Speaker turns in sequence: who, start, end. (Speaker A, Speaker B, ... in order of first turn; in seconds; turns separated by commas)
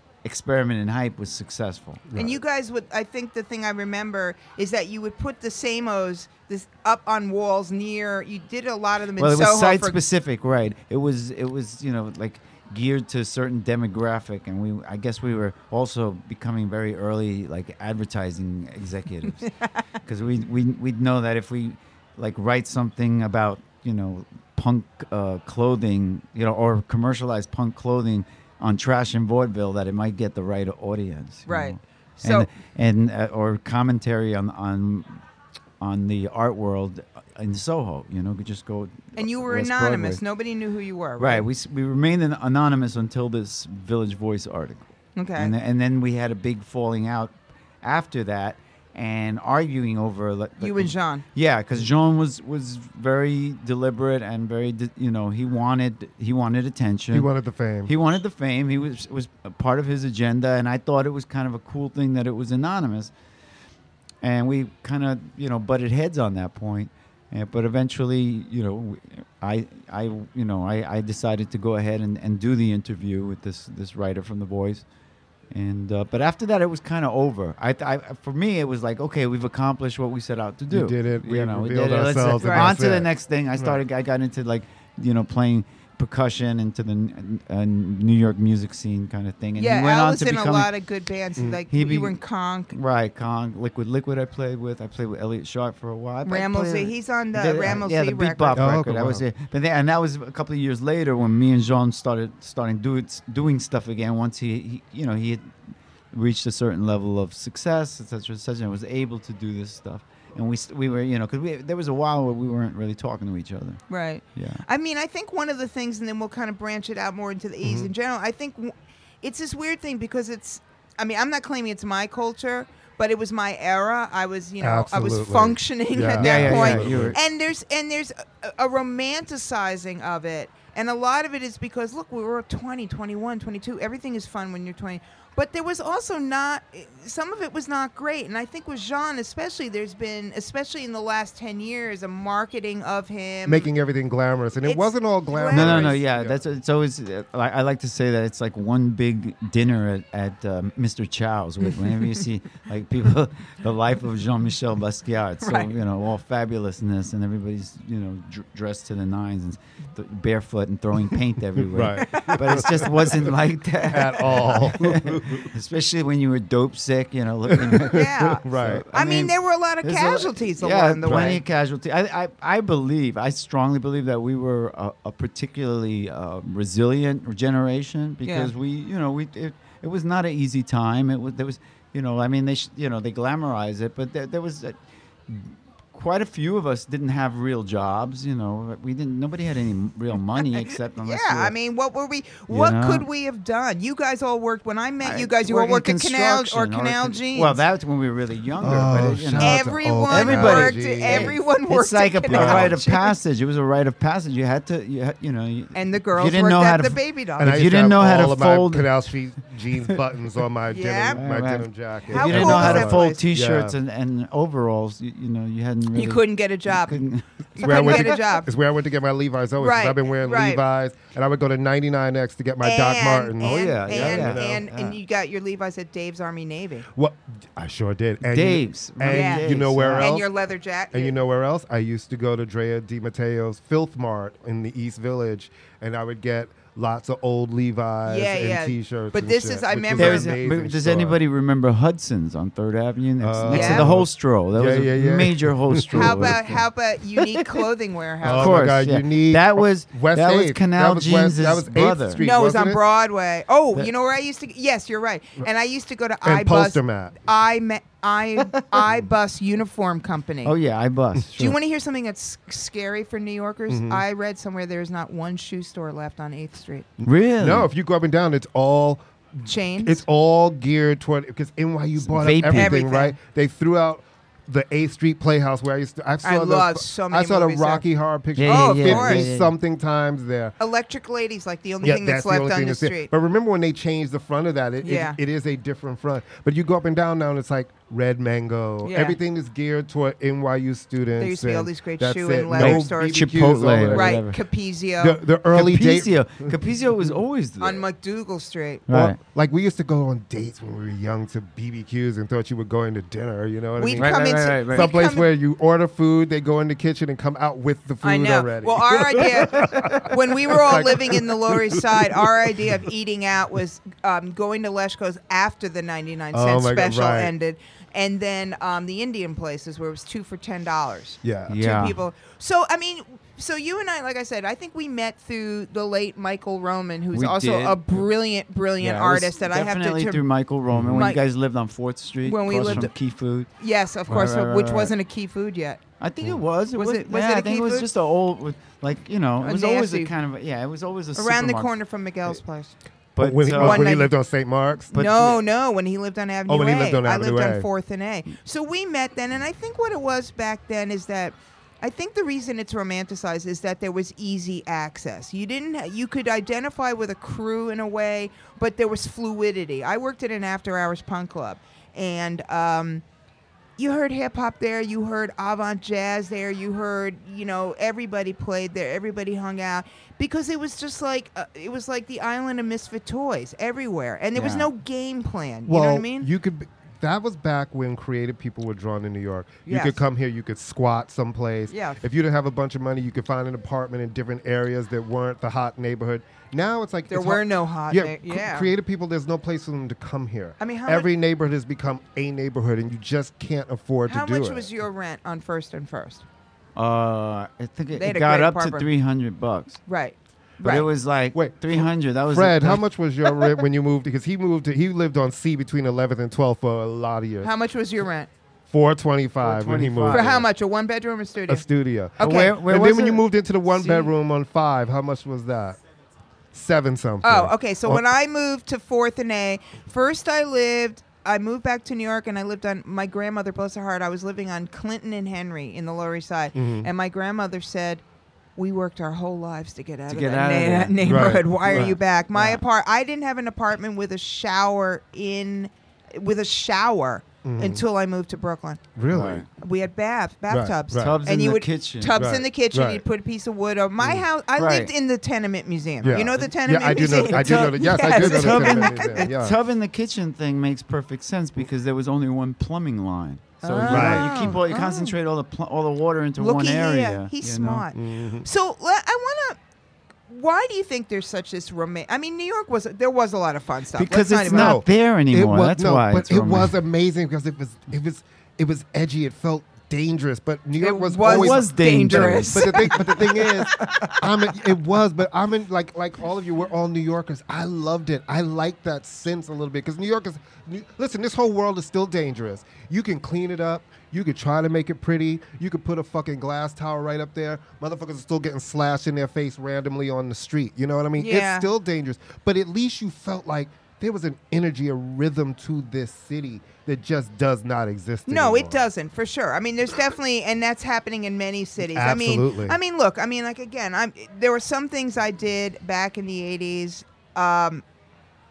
Speaker A: 0.2-2.1, Speaker B: 2.1-2.4, Speaker C: 2.1-10.0, Speaker A: 9.2-19.5, Speaker A: 20.0-35.2, Speaker C: 31.5-32.5, Speaker A: 35.8-40.2, Speaker C: 39.1-41.5, Speaker A: 41.2-57.3, Speaker C: 45.1-45.5, Speaker C: 50.6-51.2, Speaker B: 57.1-57.9, Speaker A: 57.9-63.1, Speaker A: 64.2-74.8, Speaker A: 75.5-90.7, Speaker B: 80.7-83.8, Speaker C: 82.4-82.7, Speaker C: 89.6-92.7, Speaker A: 91.7-92.2, Speaker A: 92.7-105.5, Speaker C: 96.2-98.7, Speaker B: 98.5-99.2, Speaker A: 106.1-113.8, Speaker C: 113.9-143.7, Speaker A: 114.3-114.6, Speaker B: 117.6-117.9, Speaker B: 124.6-127.2, Speaker A: 126.2-127.2, Speaker B: 143.4-146.4, Speaker C: 144.6-146.0, Speaker A: 145.5-184.8, Speaker C: 155.4-155.7, Speaker B: 161.6-163.3, Speaker C: 162.0-162.4, Speaker B: 163.8-165.5, Speaker B: 167.5-168.8, Speaker C: 167.8-171.4, Speaker B: 171.0-171.4, Speaker C: 178.2-178.5, Speaker A: 185.3-191.5, Speaker C: 191.0-197.6, Speaker A: 192.5-193.1, Speaker A: 195.0-208.9, Speaker B: 198.6-201.3, Speaker C: 199.4-203.2, Speaker B: 202.3-202.7, Speaker C: 205.7-207.6, Speaker B: 207.4-213.8, Speaker C: 210.7-211.2, Speaker A: 211.1-218.2, Speaker C: 212.1-213.2, Speaker C: 215.9-217.0, Speaker C: 217.6-218.5, Speaker B: 217.6-224.7, Speaker C: 219.6-220.6, Speaker C: 222.6-226.9, Speaker A: 223.4-225.0, Speaker B: 226.9-230.3, Speaker A: 228.2-230.1, Speaker C: 229.1-231.2, Speaker B: 230.9-241.2, Speaker C: 238.1-240.3, Speaker A: 239.9-246.6, Speaker B: 243.2-246.4, Speaker C: 243.5-243.9, Speaker C: 245.9-248.6, Speaker A: 247.2-247.6, Speaker B: 248.2-252.8, Speaker A: 248.2-252.2, Speaker C: 252.2-260.5, Speaker B: 256.2-257.2, Speaker A: 260.4-261.6, Speaker C: 261.3-266.9, Speaker B: 263.7-264.0, Speaker A: 267.0-267.7, Speaker B: 267.4-280.5, Speaker C: 269.4-270.0, Speaker A: 272.0-272.8, Speaker C: 272.5-273.1, Speaker C: 276.2-277.8, Speaker A: 278.4-279.5, Speaker C: 278.4-279.3, Speaker C: 280.6-283.1, Speaker B: 281.8-294.2, Speaker C: 284.8-285.2, Speaker C: 288.8-289.2, Speaker C: 291.2-293.3, Speaker A: 292.5-294.4, Speaker C: 293.9-295.2, Speaker B: 295.0-296.5, Speaker A: 295.5-297.8, Speaker C: 297.6-298.8, Speaker A: 298.9-299.2, Speaker B: 298.9-312.7, Speaker C: 303.8-305.3, Speaker A: 303.9-304.9, Speaker C: 308.0-330.3, Speaker B: 316.3-317.3, Speaker B: 321.2-321.6, Speaker A: 321.5-322.0, Speaker A: 327.1-327.9, Speaker A: 328.8-333.5, Speaker B: 330.7-331.1, Speaker C: 330.9-331.2, Speaker C: 332.2-332.9, Speaker C: 333.6-335.8, Speaker A: 334.1-334.9, Speaker A: 336.0-341.7, Speaker C: 336.7-337.9, Speaker C: 339.4-340.1, Speaker C: 341.1-342.7, Speaker A: 343.1-344.0, Speaker B: 343.2-344.9, Speaker C: 343.5-344.1, Speaker A: 344.9-345.4, Speaker C: 344.9-363.0, Speaker B: 346.5-347.7, Speaker C: 363.8-376.3, Speaker A: 374.4-374.7, Speaker B: 375.7-394.7, Speaker C: 379.6-380.0, Speaker C: 381.7-382.0, Speaker C: 387.1-388.7, Speaker C: 390.6-391.1, Speaker C: 394.1-396.2, Speaker A: 396.8-399.8, Speaker C: 397.9-398.9, Speaker C: 399.9-400.9, Speaker A: 400.6-403.5, Speaker B: 401.3-407.5, Speaker C: 407.4-408.3, Speaker B: 408.7-410.4, Speaker A: 409.4-410.4, Speaker C: 410.1-411.6, Speaker B: 411.5-415.8, Speaker C: 412.2-412.6, Speaker A: 412.2-413.2, Speaker C: 413.8-414.1, Speaker B: 416.5-418.0, Speaker C: 417.2-428.0, Speaker B: 426.5-426.9, Speaker C: 428.6-438.8, Speaker A: 430.1-432.6, Speaker B: 431.0-431.9, Speaker B: 437.4-437.8, Speaker B: 438.9-439.4, Speaker A: 439.1-439.4, Speaker C: 439.6-449.3, Speaker B: 440.5-441.2, Speaker A: 440.9-442.2, Speaker B: 442.1-443.0, Speaker B: 444.0-444.2, Speaker A: 444.6-444.9, Speaker B: 446.0-449.6, Speaker A: 446.9-457.9, Speaker C: 453.6-455.1, Speaker B: 453.9-454.4, Speaker C: 456.4-459.6, Speaker B: 457.9-458.5, Speaker C: 460.3-464.8, Speaker A: 464.0-466.7, Speaker B: 464.5-498.9, Speaker C: 470.8-474.2, Speaker A: 471.2-473.0, Speaker C: 491.2-491.7, Speaker C: 498.3-507.8, Speaker B: 501.8-502.8